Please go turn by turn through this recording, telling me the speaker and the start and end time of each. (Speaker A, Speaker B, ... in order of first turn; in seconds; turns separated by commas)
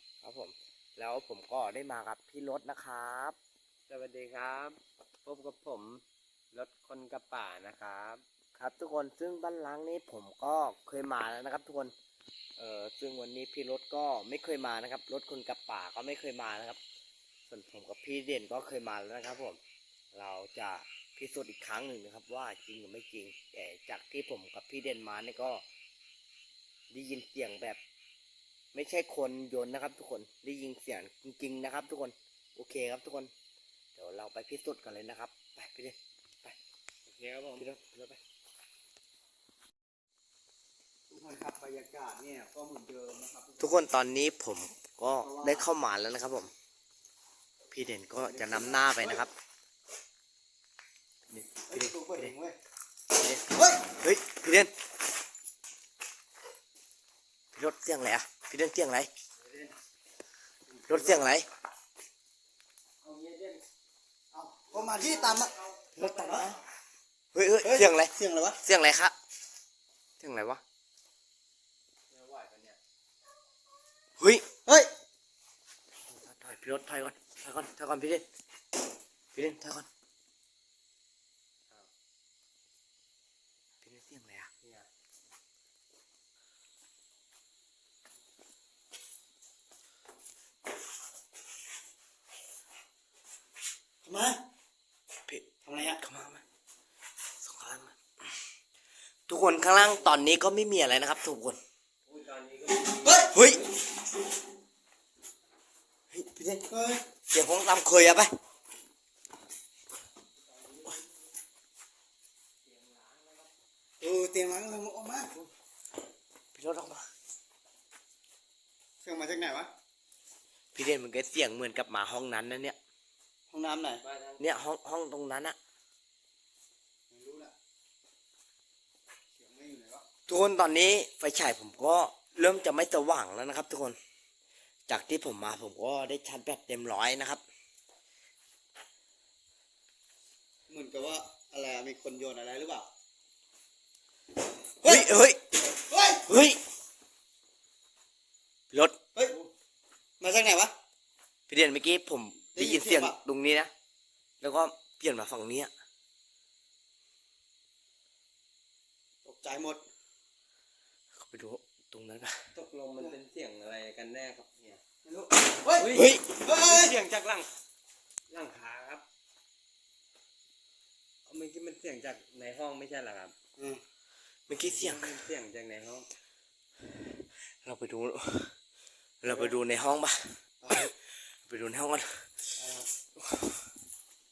Speaker A: 0.2-3.4, Speaker B: 3.9-8.2, Speaker A: 8.6-11.9, Speaker A: 12.6-16.8, Speaker A: 17.5-19.6, Speaker A: 20.1-25.6, Speaker A: 26.9-27.8, Speaker A: 28.7-33.3, Speaker A: 34.0-36.5, Speaker B: 37.1-37.6, Speaker A: 37.6-38.2, Speaker C: 41.1-43.8, Speaker A: 43.6-46.5, Speaker C: 45.2-45.7, Speaker A: 47.7-49.3, Speaker C: 48.2-49.2, Speaker A: 51.3-52.3, Speaker C: 51.7-52.6, Speaker A: 53.1-54.7, Speaker C: 53.5-53.9, Speaker A: 57.5-59.1, Speaker B: 59.4-59.7, Speaker C: 60.7-61.2, Speaker A: 60.9-61.5, Speaker B: 63.0-63.6, Speaker C: 64.3-65.6, Speaker B: 64.8-66.6, Speaker A: 66.0-66.6, Speaker C: 66.1-66.5, Speaker A: 67.3-69.2, Speaker C: 67.6-68.6, Speaker A: 70.2-70.6, Speaker B: 72.1-72.8, Speaker A: 74.2-74.4, Speaker A: 76.1-78.3, Speaker A: 79.3-79.9, Speaker A: 83.8-84.5, Speaker B: 84.6-84.9, Speaker C: 94.0-94.4, Speaker A: 95.3-96.4, Speaker C: 95.7-96.0, Speaker A: 97.4-98.0, Speaker A: 99.3-101.6, Speaker B: 102.1-103.4, Speaker C: 103.0-103.3, Speaker A: 103.3-103.7, Speaker A: 106.1-106.7, Speaker C: 106.7-107.0, Speaker A: 107.3-108.3, Speaker B: 110.4-111.1, Speaker B: 112.6-113.5, Speaker C: 114.0-115.4, Speaker A: 116.5-117.1, Speaker C: 119.0-119.7, Speaker A: 120.7-122.8, Speaker C: 123.5-124.0, Speaker B: 124.0-124.4, Speaker A: 124.4-125.6, Speaker C: 127.1-127.5, Speaker C: 129.3-130.1, Speaker A: 130.3-134.0, Speaker A: 134.9-137.4, Speaker C: 140.7-142.9, Speaker C: 144.8-145.1, Speaker A: 144.8-145.4, Speaker C: 145.9-146.3, Speaker A: 146.3-146.6, Speaker A: 148.7-149.0, Speaker C: 150.2-150.7, Speaker A: 151.5-153.7, Speaker C: 152.6-153.2, Speaker A: 154.4-155.7, Speaker C: 159.2-159.8, Speaker A: 161.2-162.4, Speaker B: 162.6-164.8, Speaker C: 165.0-167.0, Speaker B: 165.8-167.5, Speaker A: 165.9-166.3, Speaker B: 168.3-169.0, Speaker B: 171.3-173.3, Speaker C: 173.6-173.8, Speaker A: 174.5-175.2, Speaker B: 174.7-176.1, Speaker A: 177.5-178.5, Speaker A: 179.2-182.5, Speaker C: 180.6-180.9